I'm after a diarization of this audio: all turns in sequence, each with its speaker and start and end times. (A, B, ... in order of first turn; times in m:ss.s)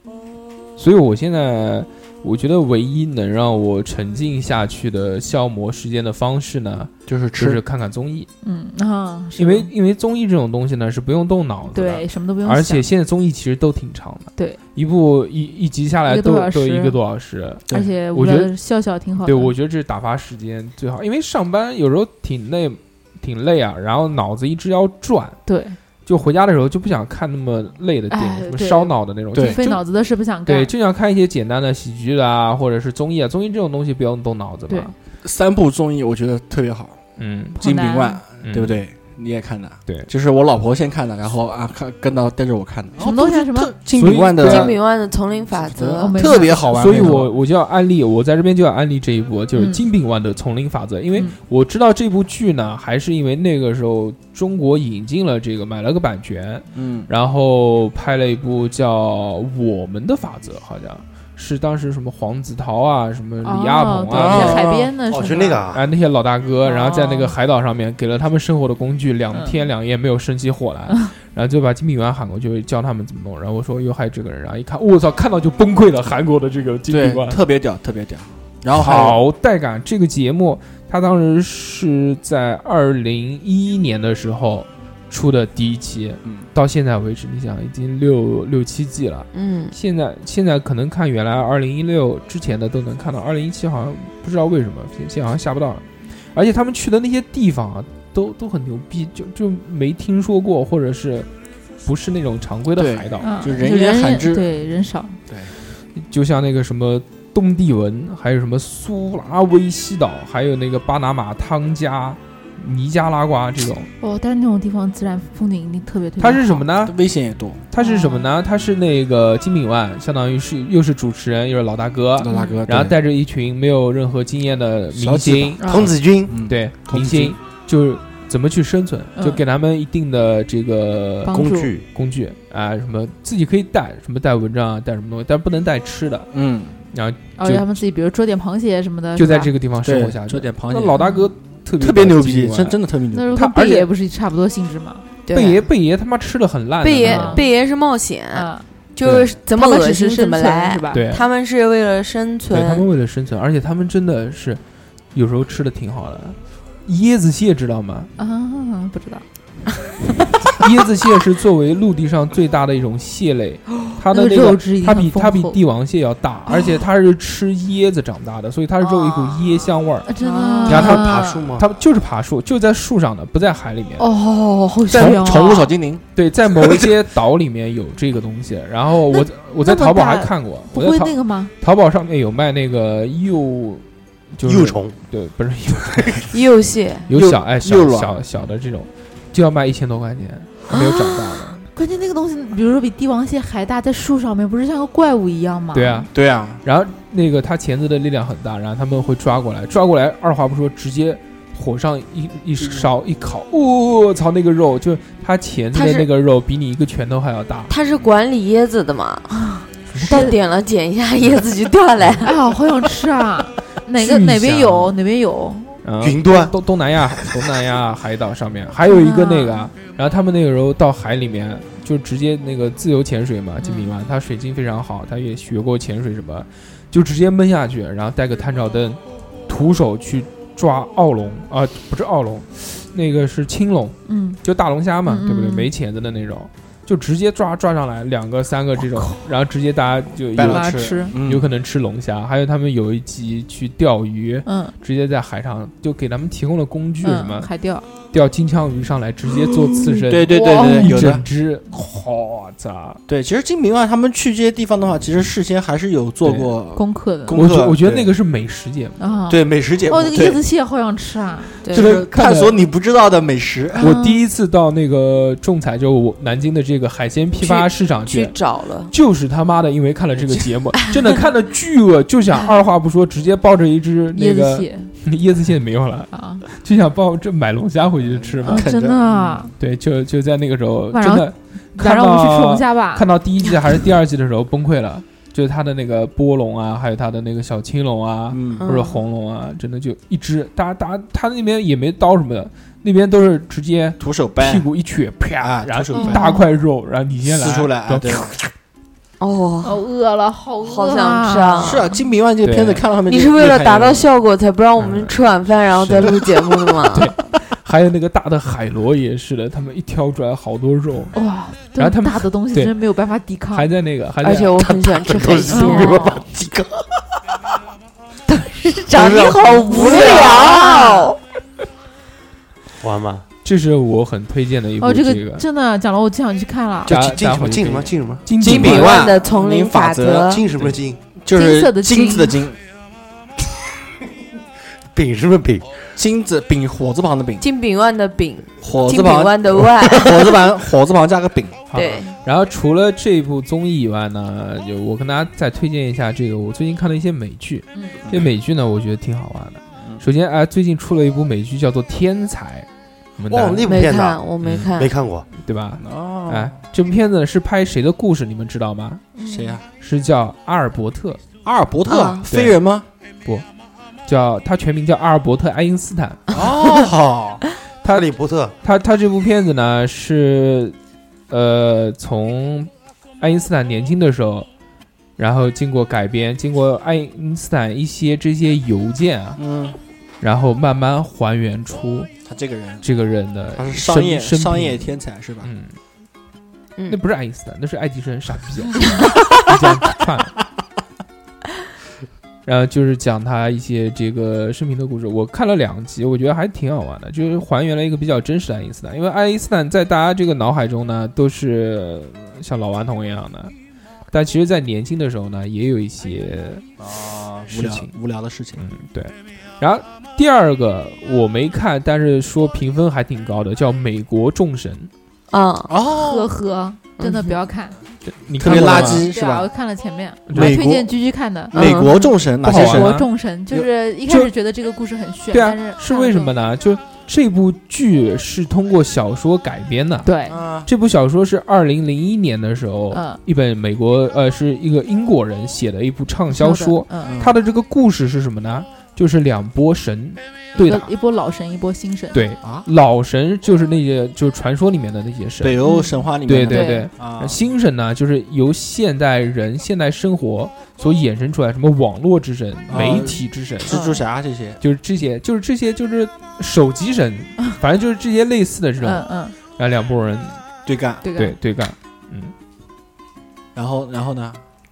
0:00.8-0:08.3 A
0:07.1-0:07.6 B
0:08.4-0:09.7 C
0:09.4-0:18.5 A
0:11.7-0:12.8 C
0:16.0-0:17.0 C
0:17.7-0:19.5 C
0:19.2-0:25.4 A
0:25.4-0:25.8 C
0:26.0-0:29.8 A
0:28.1-0:30.7 C
0:29.3-0:29.6 B
0:30.4-0:34.9 A
0:35.2-0:37.0 B
0:37.2-0:37.6 A
0:37.6-0:38.2 C
0:37.6-0:44.8 B
0:38.4-0:38.8 A
0:43.0-0:43.7 C
0:43.9-0:44.7 A
0:44.4-0:46.2 D
0:45.5-0:47.3 B
0:46.0-0:47.2 C
0:46.7-1:04.6 A
0:49.5-0:49.8 C
0:56.7-0:57.1 B
1:03.4-1:05.6 C
1:04.1-1:04.9 B
1:05.1-1:05.8 E
1:05.7-1:17.4 A
1:06.6-1:07.3 C
1:16.9-1:19.2 B
1:18.7-1:41.3 A
1:26.2-1:26.5 B
1:29.3-1:29.7 D
1:41.8-1:43.4 A
1:42.8-1:44.5 B
1:43.2-1:45.2 C
1:45.3-1:45.5 B
1:46.0-1:53.9 A
1:54.0-1:56.6 C
1:56.2-1:56.9 A
1:56.8-1:57.6 B
1:57.7-2:05.6 A
1:57.8-1:58.3 C
2:02.2-2:03.0 B
2:02.3-2:02.6 C
2:04.9-2:05.7 B
2:05.6-2:05.9 C
2:05.7-2:06.3 E
2:06.3-2:07.4 B
2:06.5-2:16.3 A
2:09.2-2:09.4 C
2:11.2-2:11.7 C
2:11.3-2:11.8 E
2:16.3-2:16.8 B
2:16.9-2:17.6 A
2:17.4-2:19.5 C
2:19.2-2:22.8 A
2:19.8-2:21.0 B
2:21.0-2:21.2 C
2:21.8-2:23.4 B
2:23.1-2:25.0 C
2:23.3-2:23.9 A
2:25.2-2:25.6 D
2:25.3-2:27.4 A
2:26.8-2:32.9 D
2:27.0-2:27.5 C
2:28.3-2:28.6 C
2:29.0-2:29.3 A
2:29.5-2:31.0 C
2:30.9-2:31.3 A
2:32.5-2:34.6 A
2:35.1-2:38.1 A
2:38.2-2:39.2 C
2:40.5-2:50.1 A
2:44.1-2:45.6 C
2:50.0-2:51.5 C
2:50.2-2:50.6 D
2:50.6-2:51.7 E
2:50.6-2:54.1 A
2:54.0-2:55.7 C
2:54.9-2:56.0 B
2:56.2-3:03.8 A
2:59.1-3:01.5 C
3:04.4-3:06.3 A
3:04.4-3:05.0 E
3:06.3-3:07.1 D
3:07.1-3:11.6 A
3:07.1-3:08.2 B
3:10.7-3:11.3 D
3:11.7-3:16.1 C
3:15.7-3:16.1 A
3:16.1-3:16.6 B
3:16.6-3:27.7 A
3:22.6-3:22.9 B
3:25.7-3:26.1 D
3:27.7-3:29.4 D
3:29.9-3:30.3 A
3:30.0-3:32.3 D
3:32.2-3:35.8 C
3:34.0-3:34.9 A
3:35.8-4:00.7 A
3:36.0-3:36.5 E
3:37.1-3:37.5 E
3:38.8-3:39.7 C
3:43.6-3:43.9 C
3:54.1-3:54.4 C
3:55.0-3:55.7 C
4:00.3-4:01.5 B
4:00.4-4:01.1 C
4:01.2-4:07.5 A
4:04.4-4:04.7 C
4:07.0-4:07.9 C
4:08.1-4:13.0 A
4:10.1-4:11.2 B
4:10.3-4:11.0 C
4:13.1-4:18.0 B
4:16.2-4:16.5 A
4:16.8-4:17.4 C
4:17.3-4:19.0 A
4:19.0-4:21.6 C
4:19.3-4:20.4 B
4:21.6-4:22.0 D
4:21.7-4:22.6 A
4:21.7-4:23.9 B
4:23.8-4:24.2 C
4:23.8-4:28.4 A
4:27.4-4:28.9 D
4:28.9-4:38.6 A
4:34.1-4:34.9 C
4:36.1-4:36.4 C
4:38.1-4:39.5 B
4:38.4-4:39.5 C
4:39.6-4:58.4 A
4:40.9-4:43.0 C
4:48.3-4:48.7 B
4:48.6-4:49.0 D
4:54.0-4:54.6 B
4:55.4-4:56.2 B
4:55.9-4:56.4 C
4:57.2-4:58.4 B
4:59.2-4:59.8 D
4:59.6-5:02.0 C
5:00.6-5:01.9 D
5:01.6-5:04.1 B
5:02.4-5:02.8 A
5:03.0-5:07.1 D
5:04.8-5:05.1 A
5:05.7-5:06.2 A
5:06.8-5:11.2 A
5:11.1-5:13.7 C
5:11.8-5:12.7 A
5:13.5-5:14.8 A
5:14.2-5:16.2 D
5:14.7-5:16.9 E
5:15.5-5:16.2 C
5:18.3-5:21.2 D
5:18.9-5:20.6 E
5:19.5-5:21.1 C
5:22.8-5:23.2 E
5:23.4-5:25.4 A
5:24.8-5:26.9 C
5:26.9-5:28.8 E
5:26.9-5:29.0 A
5:28.4-5:30.3 B
5:28.4-5:30.4 D
5:30.2-5:31.0 E
5:31.1-5:32.6 B
5:31.3-5:32.4 C
5:34.9-5:35.8 E
5:36.0-5:37.4 B
5:37.4-5:40.4 D
5:38.6-5:41.6 B
5:41.7-5:53.7 A
5:41.7-5:42.1 D
5:53.3-5:55.3 E
5:53.6-5:54.9 D
5:54.4-5:54.7 A
5:55.4-5:59.1 A
5:55.8-5:56.6 B
5:59.2-5:59.6 C
5:59.2-5:59.6 B
5:59.8-6:01.2 A
6:01.4-6:02.9 B
6:01.9-6:02.3 D
6:02.3-6:02.6 A
6:04.1-6:06.2 A
6:06.3-6:07.4 B
6:07.8-6:08.1 A
6:07.9-6:08.5 E
6:08.6-6:10.8 A
6:11.3-6:14.5 A
6:15.2-6:19.4 A
6:19.4-6:19.8 B
6:20.2-6:22.1 A
6:22.2-6:22.8 B
6:22.8-6:25.8 A
6:23.5-6:25.5 B
6:26.9-6:30.3 A
6:32.4-6:43.5 A
6:44.1-6:46.6 A
6:46.8-6:48.6 B
6:47.5-6:47.9 A
6:48.6-6:54.9 A
6:55.3-6:55.7 D
6:55.7-6:56.3 B
6:56.0-6:57.8 C
6:57.0-6:57.4 D
6:58.0-6:59.1 A
6:58.4-6:59.5 B
6:58.5-7:01.6 C
7:00.3-7:00.6 A
7:00.3-7:00.9 B
7:01.5-7:02.9 B
7:01.5-7:02.1 D
7:02.4-7:03.1 A
7:02.4-7:06.3 C
7:05.3-7:10.1 A
7:10.0-7:10.4 C
7:10.2-7:10.7 B
7:10.6-7:20.9 A
7:12.9-7:13.2 C
7:16.3-7:17.2 C
7:17.0-7:17.4 B
7:20.6-7:22.2 C
7:22.1-7:25.6 A
7:22.4-7:22.7 B
7:25.4-7:27.4 B
7:25.6-7:26.9 C
7:26.2-7:33.8 A
7:32.7-7:34.6 B
7:33.7-7:34.0 C
7:34.6-7:39.0 A
7:38.8-7:39.3 C
7:39.6-7:40.4 A
7:40.6-7:41.0 B
7:41.0-7:41.4 C
7:41.2-7:42.3 A
7:43.5-7:44.4 B